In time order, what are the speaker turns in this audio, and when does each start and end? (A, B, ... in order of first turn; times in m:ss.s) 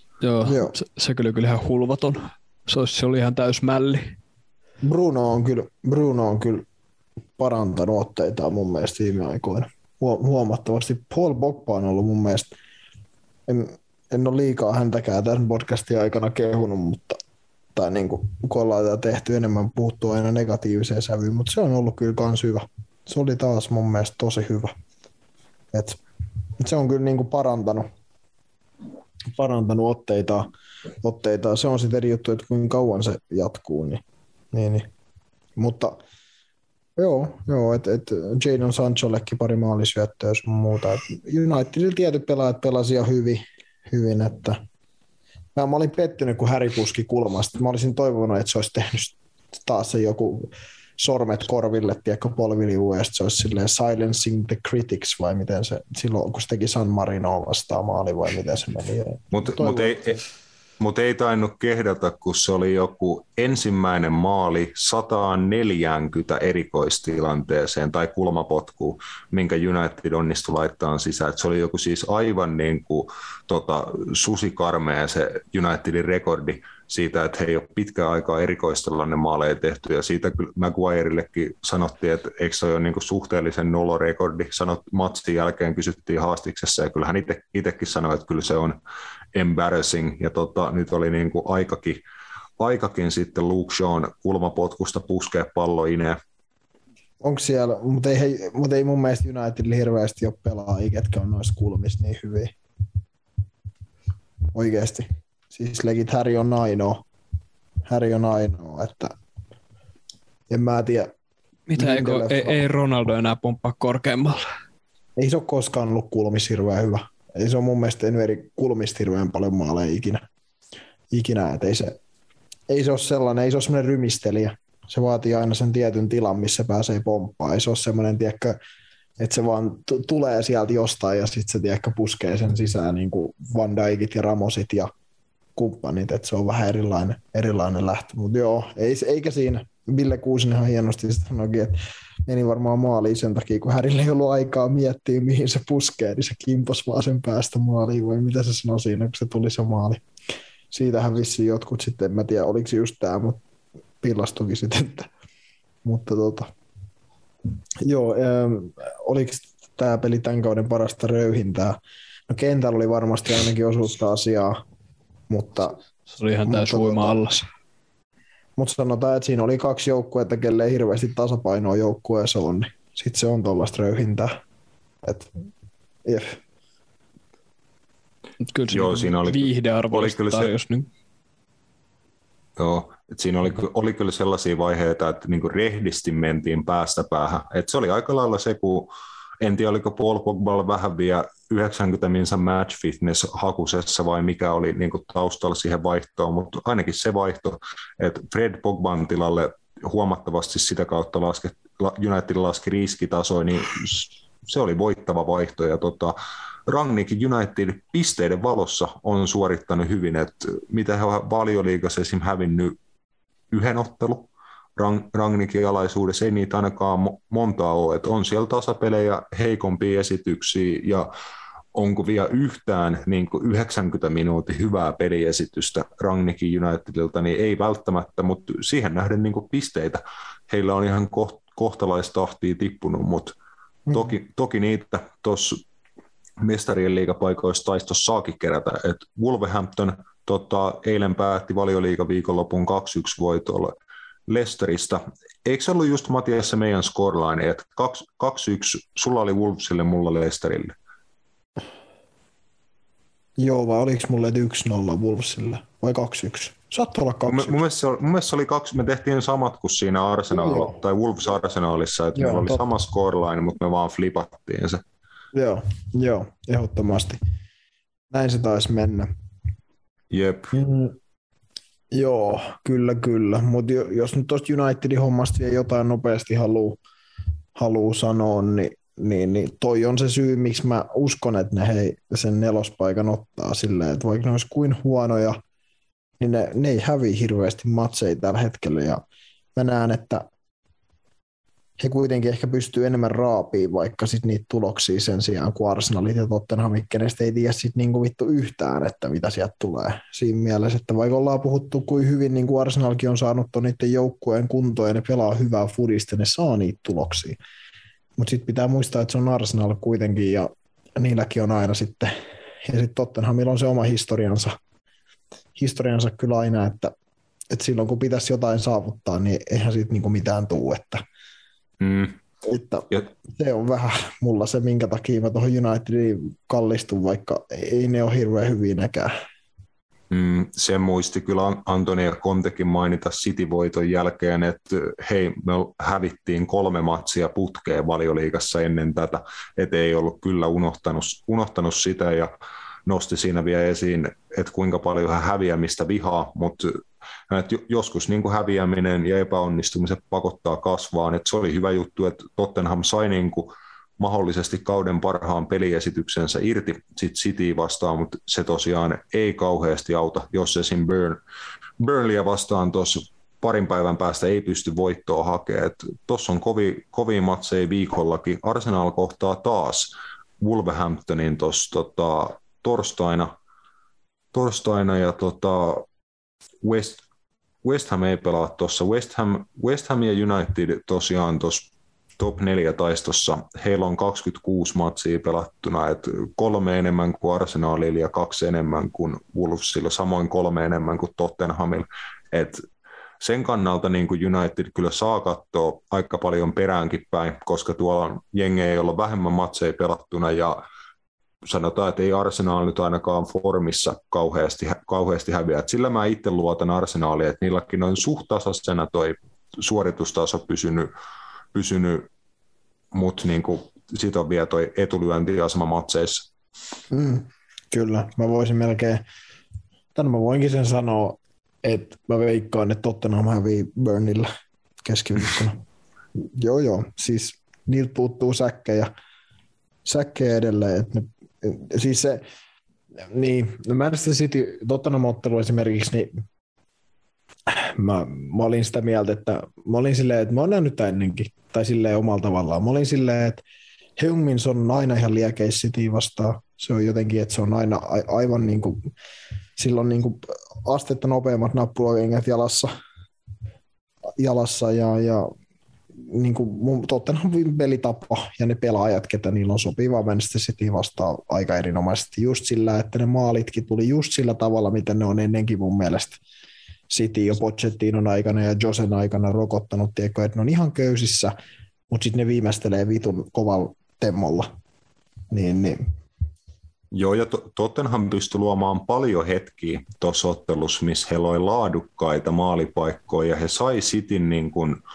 0:00.2-0:04.2 A
0:00.4-0:00.7 B
0:04.8-0:06.7 B
0:07.4-0:12.6 B
0:13.5-0:17.2 B
0:17.7-0:24.7 B
0:25.7-0:26.0 B
0:26.6-0:27.9 B
0:29.3-0:30.5 B
0:31.0-0:34.9 B
0:35.6-0:36.0 B
0:37.0-0:44.6 B
0:45.6-1:00.0 B
0:59.3-1:00.2 C
1:00.8-1:28.8 C
1:29.4-1:32.0 C
1:32.6-1:36.2 C
1:37.2-1:42.6 B
1:44.5-1:47.0 B
1:47.9-1:49.2 B
1:50.5-1:51.1 B
1:51.7-1:54.4 A
1:51.8-1:52.6 B
1:55.2-2:00.2 B
2:01.1-2:02.0 B
2:02.7-2:08.6 B
2:09.2-2:14.9 B
2:15.6-2:30.0 B
2:30.7-2:33.4 B
2:34.0-2:35.1 B
2:35.8-2:36.5 B
2:37.8-2:44.6 B
2:45.3-2:45.8 B
2:46.1-2:47.4 A
2:46.4-2:47.2 B
2:48.6-2:54.4 B
2:55.0-2:55.3 B
2:56.0-2:56.4 B
2:58.4-3:00.9 A
2:58.7-3:00.5 C
3:02.6-3:26.2 C
3:26.7-3:32.8 C
3:33.5-3:41.1 C
3:41.7-3:53.4 C
3:53.9-3:55.6 C
3:56.4-4:03.7 C
4:04.3-4:10.7 C
4:13.4-4:17.6 B
4:17.3-4:24.8 C
4:20.3-4:20.7 B
4:22.1-4:22.6 B
4:25.3-4:27.2 B
4:28.1-4:29.1 B
4:30.1-4:30.5 C
4:30.5-4:31.0 B
4:31.9-4:36.8 B
4:37.6-4:45.4 B
4:46.2-4:49.0 B
4:49.6-4:50.3 B
4:51.8-5:07.4 B
5:08.2-5:12.1 B
5:12.6-5:14.5 B
5:15.6-5:16.9 B
5:17.5-5:21.0 B
5:21.8-5:22.2 C
5:22.4-5:29.1 B
5:30.1-5:42.3 C
5:42.9-6:01.2 C
6:01.8-6:13.3 C
6:14.3-6:15.9 C
6:16.6-6:17.0 C
6:17.6-6:32.6 C
6:33.2-6:40.6 C
6:41.4-6:50.9 C
6:51.5-6:52.1 C
6:52.9-6:56.3 C
6:56.9-6:59.0 B
7:00.0-7:04.3 B
7:04.8-7:05.6 B
7:06.1-7:08.9 B
7:09.8-7:12.2 B
7:13.1-7:16.2 B
7:17.5-7:23.4 B
7:24.0-7:28.8 B
7:29.6-7:32.7 B
7:34.2-7:35.3 B
7:36.0-7:46.2 B
7:46.9-7:51.3 B
7:51.9-7:54.5 B
7:55.3-7:55.8 B
7:56.9-8:04.8 C